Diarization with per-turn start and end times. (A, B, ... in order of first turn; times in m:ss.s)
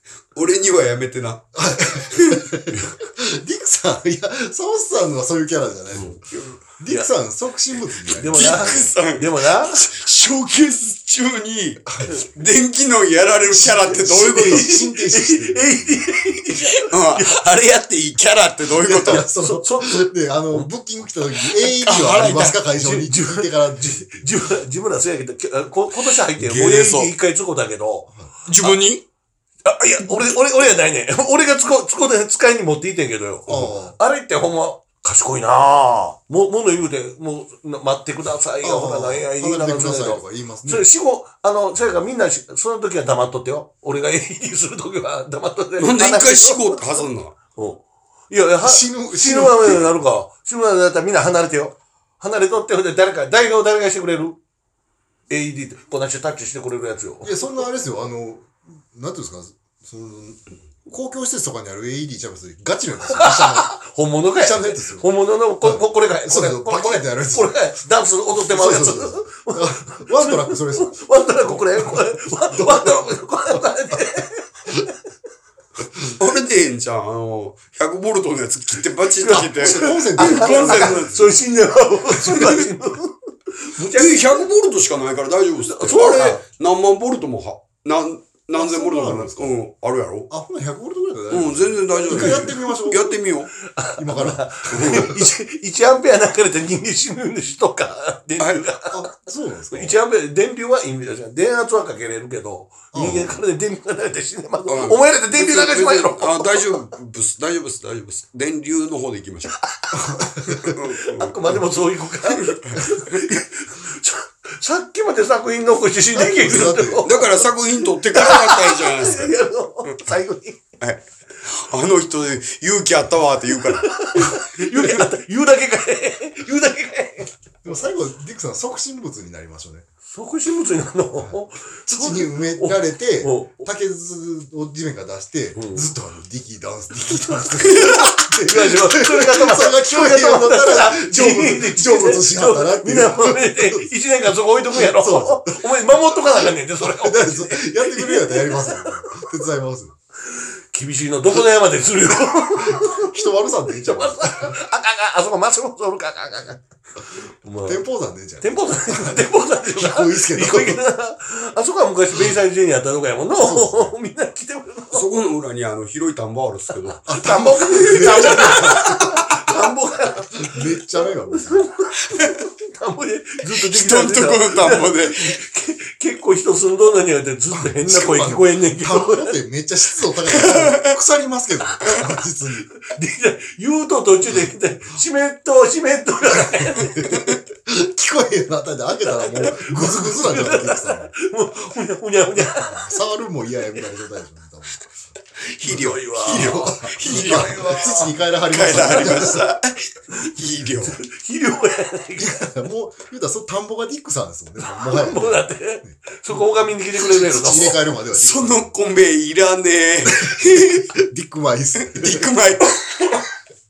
0:00.4-0:02.5 A
0:01.6-0:08.9 B
0:08.1-0:09.9 C
0:08.3-0:14.7 A
0:13.5-0:16.0 B
0:13.7-0:17.4 C
0:16.9-0:19.2 A
0:18.8-0:20.7 C
0:18.9-0:24.3 B
0:21.6-0:22.6 A
0:22.8-0:28.1 C
0:26.4-0:27.1 A
0:28.5-0:29.0 A
0:29.6-0:47.0 C
0:33.5-0:34.0 B
0:38.6-0:40.9 B
0:45.8-0:47.4 A
0:47.6-0:54.4 C
0:48.6-0:49.9 B
0:55.3-0:57.6 C
0:57.2-1:03.7 B
1:03.1-1:14.9 C
1:04.4-1:05.1 B
1:05.6-1:07.6 B
1:08.4-1:11.0 B
1:12.6-1:12.9 B
1:16.1-1:21.3 A
1:19.2-1:24.5 C
1:19.3-1:21.2 B
1:22.3-1:22.6 A
1:23.9-1:30.3 A
1:25.6-1:26.4 C
1:28.6-1:29.5 B
1:30.3-1:33.1 B
1:31.3-1:33.5 A
1:32.1-1:32.5 C
1:33.6-1:39.1 C
1:34.0-1:35.2 B
1:34.7-1:35.1 A
1:38.4-1:38.6 A
1:38.9-1:40.0 B
1:39.7-1:46.8 C
1:42.9-1:43.4 B
1:43.0-1:43.3 A
1:44.7-1:49.6 A
1:49.9-1:50.7 B
1:50.5-1:51.7 A
1:50.6-1:57.5 C
1:52.4-1:53.2 A
1:56.1-1:57.1 B
1:57.0-1:59.4 A
1:58.1-2:00.6 C
2:00.8-2:05.0 A
2:03.8-2:07.3 C
2:07.6-2:09.8 B
2:10.1-2:13.7 C
2:11.9-2:23.9 B
2:15.6-2:15.9 C
2:17.6-2:29.2 C
2:24.7-2:25.6 B
2:26.8-2:29.9 B
2:30.3-2:36.6 C
2:32.6-2:34.6 B
2:37.4-2:37.8 C
2:37.7-2:40.8 B
2:38.4-2:45.1 C
2:43.4-2:43.9 B
2:44.9-2:47.0 A
2:47.1-2:49.6 B
2:47.1-2:59.3 C
2:50.4-2:51.7 B
2:53.5-2:55.4 A
2:57.5-3:02.7 B
3:00.3-3:00.9 A
3:02.8-3:07.2 C
3:06.8-3:11.1 B
3:09.0-3:12.9 C
3:12.5-3:14.9 B
3:15.6-3:18.0 A
3:15.6-3:18.1 C
3:16.3-3:19.4 B
3:18.5-3:21.0 A
3:20.9-3:22.6 C
3:22.2-3:26.0 B
3:24.6-3:27.8 C
3:27.1-3:28.7 B
3:28.1-3:30.9 A
3:30.4-3:32.3 B
3:31.8-3:33.2 A